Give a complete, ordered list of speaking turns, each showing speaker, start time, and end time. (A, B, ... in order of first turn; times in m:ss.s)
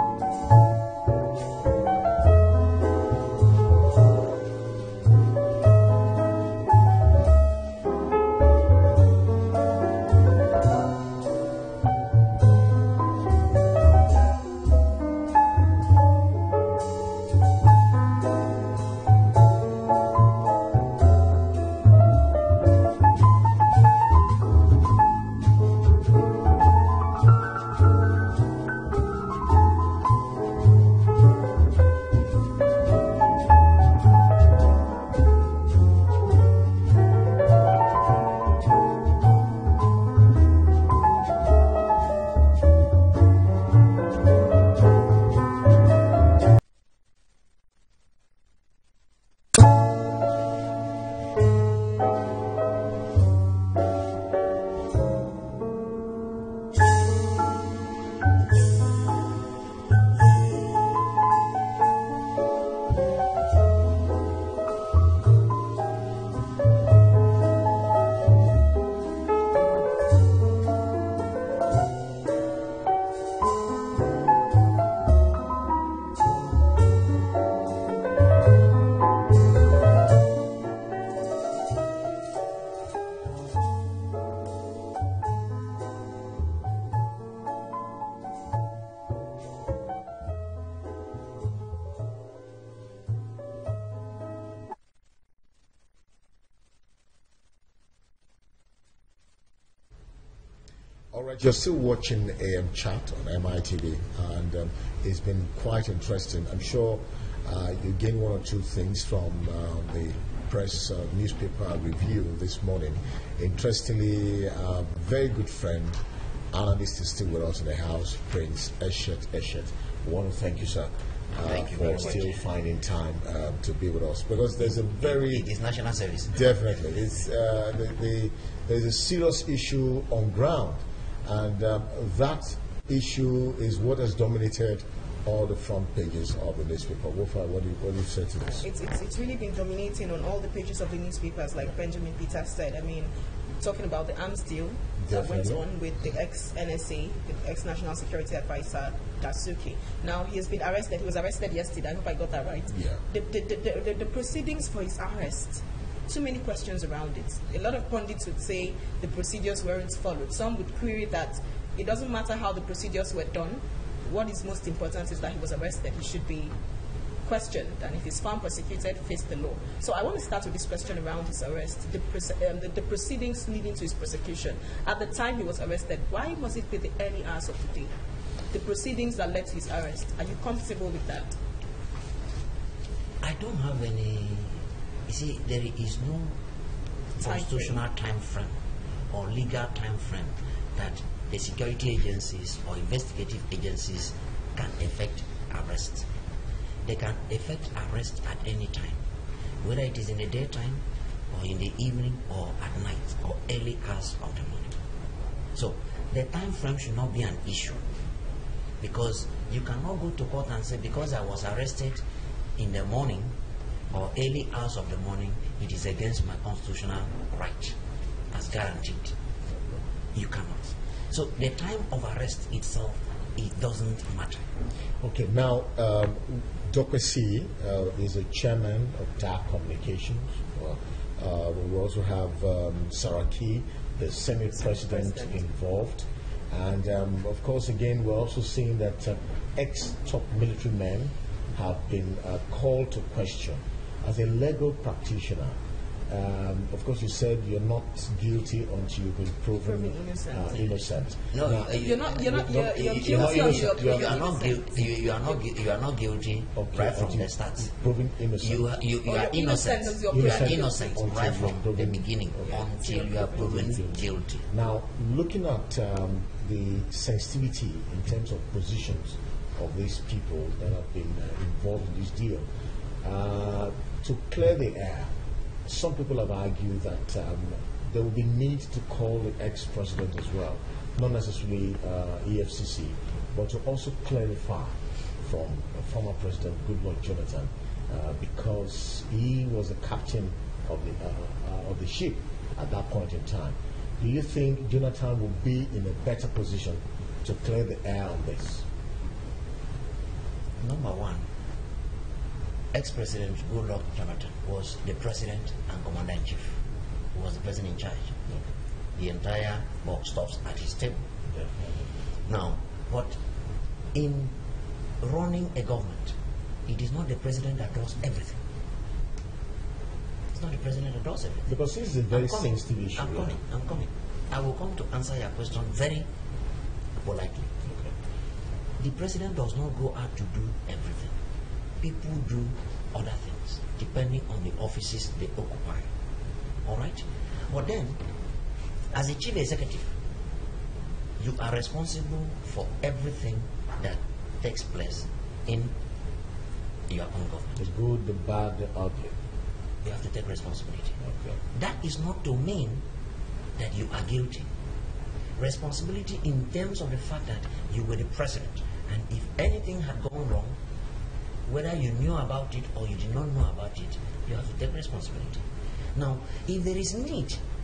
1:41.1-1:56.0 A
1:56.5-2:05.5 A
2:01.4-2:02.4 B
2:04.6-2:06.4 B
2:06.3-2:18.6 A
2:18.5-2:23.1 C
2:23.6-2:46.5 C
2:25.0-2:25.6 A
2:47.2-2:57.9 C
2:58.5-3:01.4 C
3:03.2-3:06.3 B
3:07.2-3:07.8 C
3:07.2-3:08.6 B
3:09.1-3:16.0 B
3:16.8-3:19.0 B
3:19.6-3:24.8 B
3:25.5-3:27.8 B
3:28.8-3:32.0 B
3:32.6-3:33.3 B
3:33.9-3:37.8 B
3:38.3-3:39.1 B
3:40.1-3:44.4 B
3:45.0-4:11.8 A
3:54.6-3:55.4 C
4:09.6-4:10.6 C
4:11.3-4:17.7 B
4:11.7-4:14.6 C
4:13.0-4:14.2 A
4:16.6-4:18.7 A
4:18.4-4:24.4 B
4:19.0-4:21.0 C
4:20.1-4:22.6 A
4:22.5-4:23.5 C
4:23.1-4:32.5 A
4:33.0-4:35.1 A
4:35.6-4:58.6 A
5:00.6-5:01.2 B
5:02.7-5:06.6 B
5:07.1-5:08.2 B
5:09.0-5:11.1 B
5:11.3-5:11.9 A
5:12.2-5:13.2 B
5:13.9-5:14.3 B
5:15.0-5:16.1 B
5:16.7-5:18.4 B
5:20.3-5:21.6 B
5:21.5-5:23.4 A
5:22.1-5:26.0 B
5:27.0-5:27.6 B
5:27.6-5:27.9 A
5:28.8-5:31.1 B
5:31.8-5:35.9 B
5:36.6-5:38.0 B
5:38.9-5:39.9 B
5:41.2-5:45.7 B
5:46.9-5:47.6 B
5:47.6-5:49.2 A
5:49.8-5:51.0 B
5:51.0-5:51.4 A
5:51.5-5:52.8 B
5:53.6-5:54.5 B
5:55.4-6:00.6 B
6:01.5-6:05.4 B
6:05.9-6:07.4 B